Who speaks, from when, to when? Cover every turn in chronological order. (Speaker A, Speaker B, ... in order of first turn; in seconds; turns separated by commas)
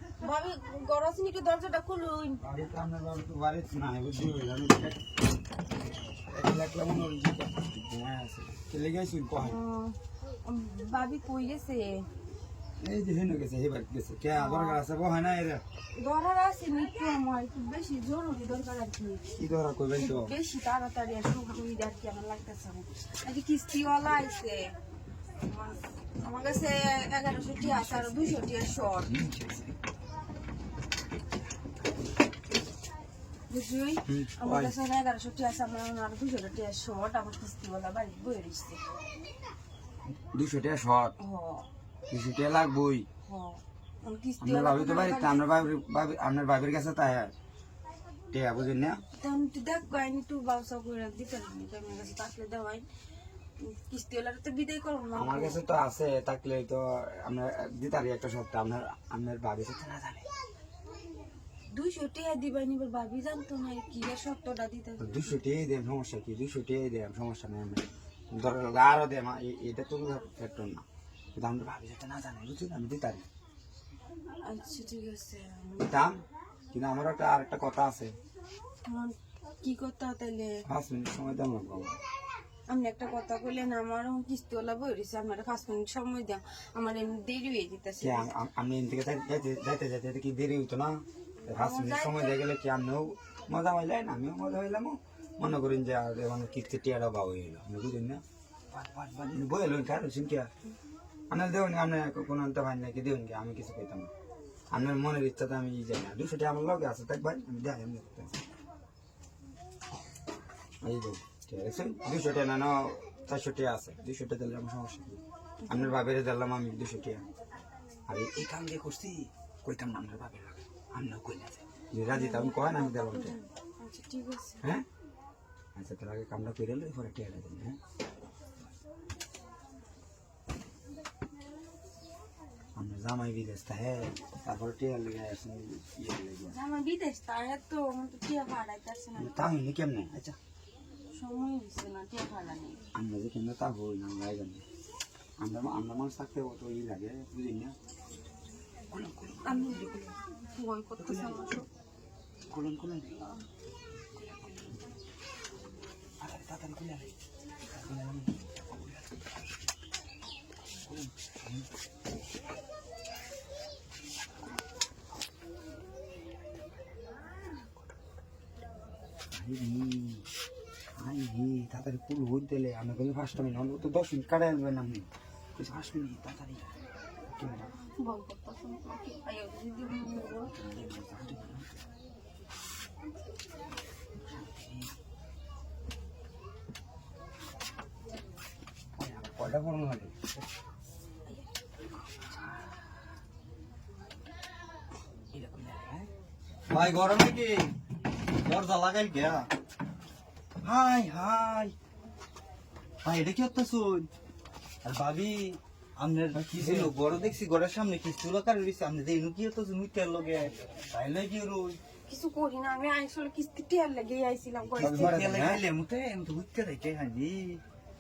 Speaker A: 0.2-2.4, Speaker B: 2.4-5.0, Speaker B: 6.3-9.6, Speaker A: 9.4-12.1, Speaker B: 12.8-15.6, Speaker A: 14.3-14.8, Speaker A: 15.9-19.2, Speaker B: 19.4-20.4, Speaker A: 20.0-24.8, Speaker A: 25.4-29.2, Speaker B: 27.6-28.4, Speaker B: 29.0-29.8, Speaker A: 33.5-38.8, Speaker B: 34.1-34.8, Speaker B: 40.2-41.2, Speaker A: 41.2-41.7, Speaker B: 42.1-43.1, Speaker A: 43.3-45.5, Speaker B: 44.4-47.3, Speaker B: 48.3-49.0, Speaker A: 49.2-52.9, Speaker A: 53.6-55.6, Speaker B: 55.1-60.3, Speaker A: 61.7-65.3, Speaker B: 65.0-70.8, Speaker B: 71.3-73.3, Speaker A: 74.4-75.9, Speaker B: 75.8-76.2, Speaker B: 76.7-78.2, Speaker A: 78.8-80.6, Speaker B: 80.7-82.0, Speaker A: 82.7-88.3, Speaker B: 88.0-100.5, Speaker A: 91.5-92.4, Speaker B: 101.3-104.1, Speaker B: 104.7-108.3, Speaker B: 110.8-117.3, Speaker A: 115.6-116.0, Speaker B: 118.1-123.4, Speaker A: 122.1-124.6, Speaker B: 125.8-127.8, Speaker B: 132.8-136.6, Speaker A: 136.5-139.5, Speaker B: 139.2-140.4, Speaker A: 141.1-142.8, Speaker B: 142.9-144.6, Speaker B: 145.4-147.8, Speaker B: 148.9-150.1, Speaker A: 149.4-149.9, Speaker A: 150.5-151.7, Speaker B: 151.0-151.6, Speaker B: 152.5-153.2, Speaker B: 154.2-154.7, Speaker B: 156.2-157.1, Speaker B: 157.7-159.0, Speaker B: 160.8-161.7, Speaker B: 169.3-170.3, Speaker B: 171.0-176.7, Speaker B: 177.2-177.7, Speaker A: 178.0-180.5, Speaker B: 180.4-181.8, Speaker B: 184.2-184.9, Speaker B: 189.0-190.2, Speaker C: 195.3-196.1, Speaker C: 196.7-197.7, Speaker C: 198.3-199.5, Speaker C: 200.6-201.8, Speaker C: 203.0-204.1, Speaker C: 204.8-211.8, Speaker B: 206.3-206.9, Speaker A: 212.1-215.2, Speaker C: 214.7-217.6, Speaker B: 214.8-215.6